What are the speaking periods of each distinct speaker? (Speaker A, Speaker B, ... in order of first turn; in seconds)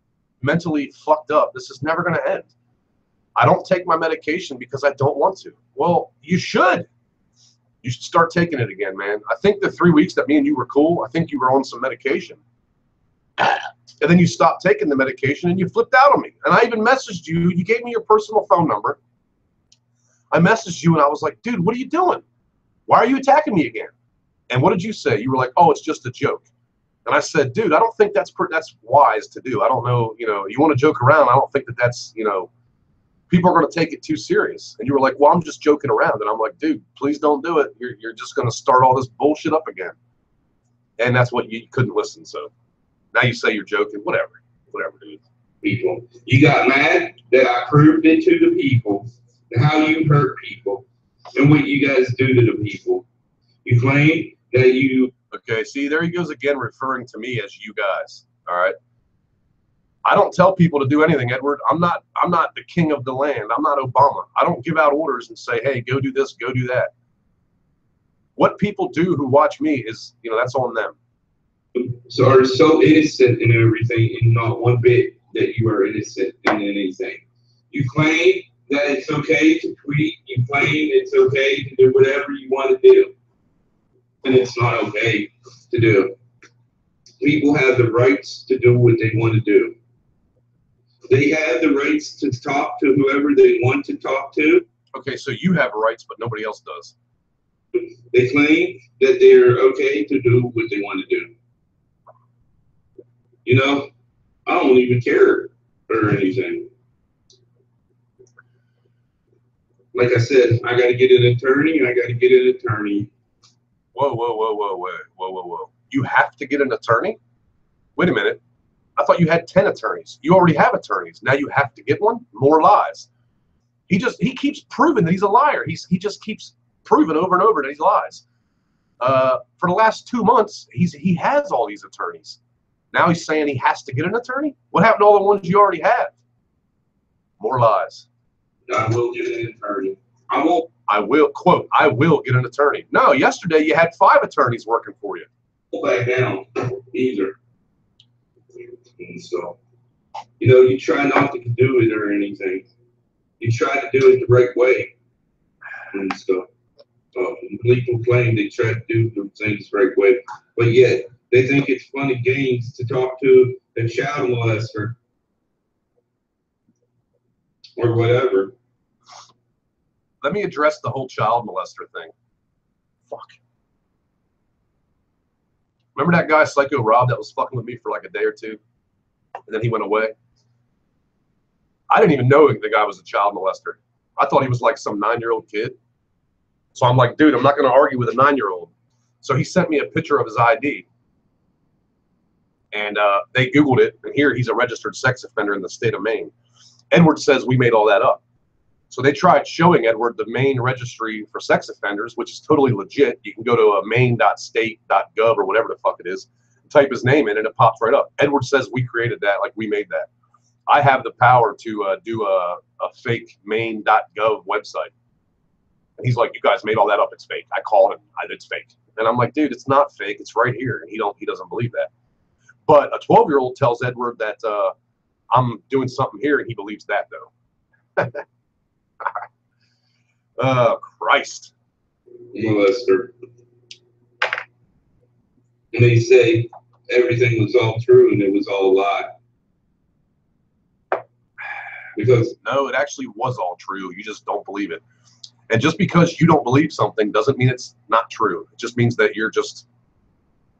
Speaker A: 0.4-2.5, 3.4-6.9, 7.8-12.4, 13.4-19.0, 20.3-22.2, 22.9-23.9, 24.5-26.5, 27.1-32.5, 33.3-40.0, 41.0-42.5, 43.1-45.2, 55.3-58.8, 60.0-66.9, 68.4-71.0, 94.9-97.0, 114.0-117.2, 118.0-118.4, 119.0-123.1, 123.9-128.2, 129.0-132.4, 132.9-136.1, 137.4-138.1, 140.9-145.3, 170.2-172.1, 173.1-173.4, 176.0-178.6, 179.5-180.1, 181.9-185.8, 186.8-190.9, 192.7-196.3, 196.9-198.2, 198.9-210.1, 210.7-214.9, 216.0-221.9, 222.7-224.7, 225.3-227.3, 228.0-228.2, 230.4-231.5, 242.4-244.8, 245.5-249.7
Speaker B: 45.6-53.0, 53.6-55.1, 71.8-83.1, 84.2-86.1, 87.2-89.8, 91.1-94.7, 97.7-101.3, 103.5-103.9, 104.5-106.7, 109.9-113.1, 138.7-140.7, 145.7-147.4, 149.0-149.6, 150.4-152.7, 153.4-154.9, 155.9-156.5, 157.1-165.0, 167.8-168.5, 232.3-233.1, 235.7-239.1, 242.0-242.3